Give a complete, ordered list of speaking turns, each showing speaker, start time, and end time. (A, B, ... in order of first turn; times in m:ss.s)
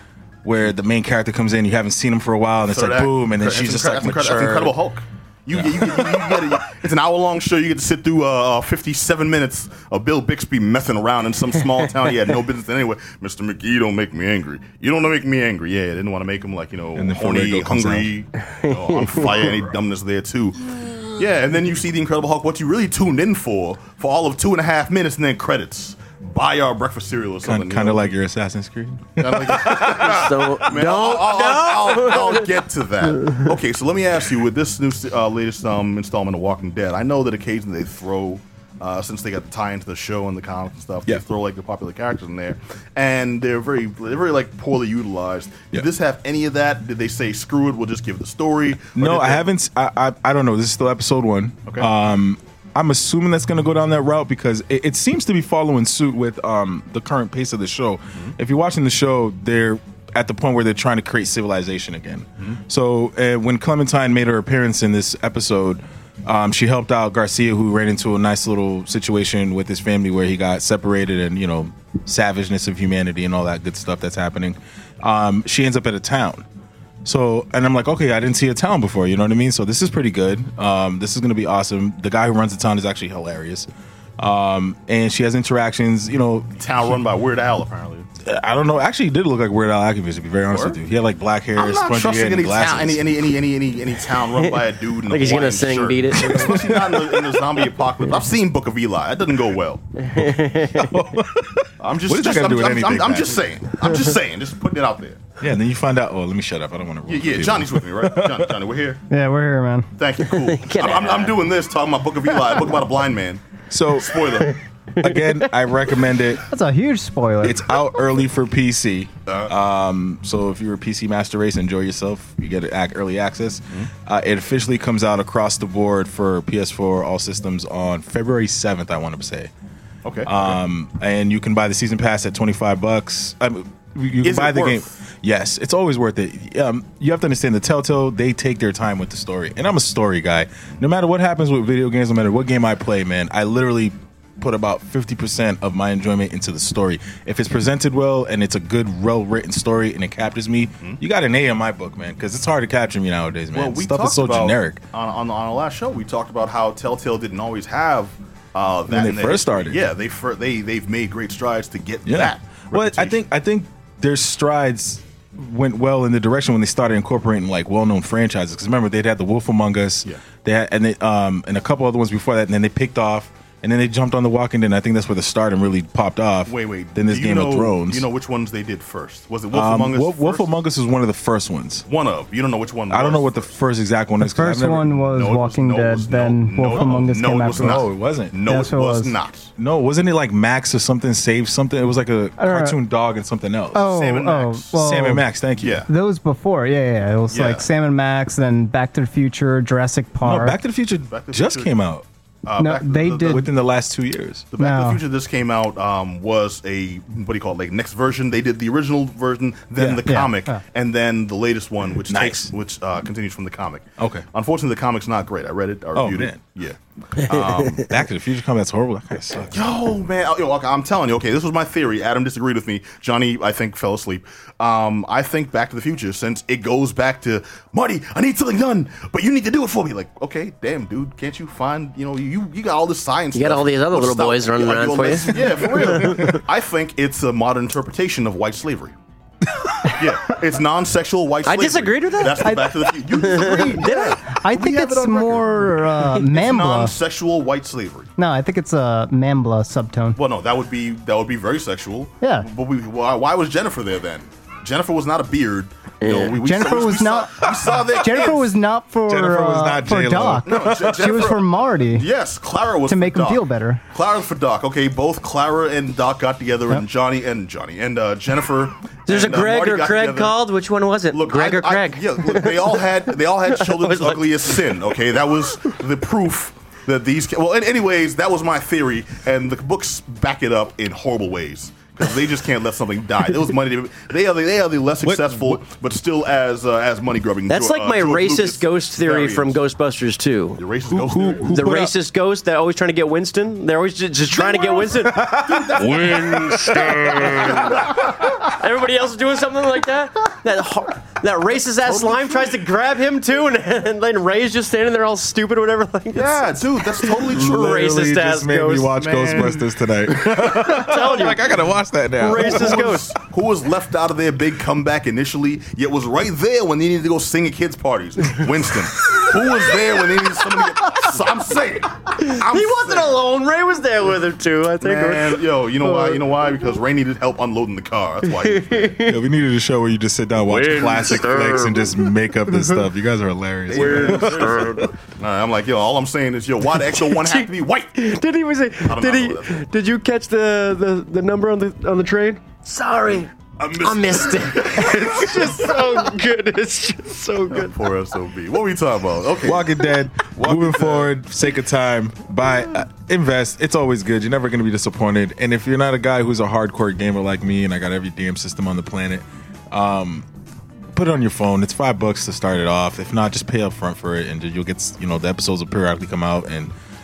0:00.4-0:04.8 A
0:02.6-0:28.1 B
0:05.5-0:06.4 A
0:16.9-0:18.1 A
0:27.4-0:30.5 A
0:29.2-0:49.4 B
0:29.6-0:32.5 C
0:48.9-1:16.4 A
1:17.0-1:23.7 A
1:24.2-1:26.5 A
1:26.6-1:28.1 B
1:28.2-1:33.0 A
1:30.5-1:30.8 B
1:31.6-1:39.8 B
1:34.3-1:36.8 C
1:36.2-1:37.1 A
1:40.1-1:41.0 C
1:40.2-1:43.5 A
1:41.8-1:45.2 B
1:45.4-1:48.5 A
1:47.0-1:49.0 B
1:49.1-1:49.9 D
1:50.0-1:53.4 B
1:50.2-1:51.4 C
1:53.7-1:54.2 A
1:54.0-1:54.6 B
1:55.0-1:56.4 A
1:56.5-1:57.6 D
1:57.4-2:09.5 A
2:10.0-2:10.5 B
2:10.2-2:34.8 A
2:14.2-2:14.9 B
2:33.5-2:43.2 B
2:38.9-2:39.8 A
2:42.0-2:58.0 A
2:56.4-3:00.4 B
2:59.5-3:01.9 A
3:01.9-3:03.5 B
3:02.9-3:05.0 A
3:04.2-3:07.9 D
3:05.1-3:09.5 B
3:06.7-3:08.4 A
3:08.4-3:09.1 D
3:09.6-3:13.9 A
3:12.4-3:12.8 D
3:13.7-3:15.2 D
3:13.8-3:14.7 B
3:14.7-3:15.8 A
3:15.6-3:15.9 B
3:15.9-3:20.6 D
3:17.3-3:17.7 B
3:20.2-3:22.0 A
3:21.1-3:21.7 B
3:22.4-3:23.5 B
3:22.6-3:23.4 D
3:23.2-3:24.5 A
3:24.5-3:37.9 B
3:24.6-3:25.0 D
3:29.8-3:30.0 A
3:30.0-3:30.6 D
3:32.1-3:32.5 A
3:34.0-3:34.2 A
3:35.9-3:36.4 A
3:37.6-3:39.6 A
3:39.5-3:58.9 B
3:53.3-3:56.4 C
3:59.8-4:08.1 B
4:01.4-4:04.2 C
4:03.8-4:07.0 D
4:08.2-4:10.2 D
4:10.2-4:18.5 B
4:12.2-4:12.5 D
4:16.0-4:16.4 C
4:16.4-4:22.1 D
4:19.1-4:21.3 A
4:20.4-4:30.4 B
4:22.9-4:23.8 D
4:29.1-4:34.7 C
4:31.1-4:49.6 B
4:45.0-4:45.6 A
4:47.5-4:50.6 C
4:50.6-4:51.5 B
4:50.9-4:51.9 A
4:51.5-5:09.4 C
4:54.4-4:56.7 B
4:55.0-4:57.8 A
4:57.2-4:58.0 B
5:01.8-5:02.6 B
5:06.1-5:07.8 B
5:07.2-5:12.9 A
5:09.0-5:09.6 B
5:10.2-5:11.5 C
5:12.2-5:13.1 C
5:12.4-5:23.2 B
5:22.2-5:26.2 C
5:24.8-5:29.0 B
5:28.2-5:29.2 C
5:29.0-5:34.9 A
5:30.4-5:32.1 C
5:33.7-5:37.9 B
5:33.7-5:34.9 C
5:36.7-5:47.8 C
5:38.8-5:39.6 B
5:43.6-5:45.8 B
5:47.5-5:51.1 B
5:49.4-6:00.2 A
6:00.9-6:06.7 A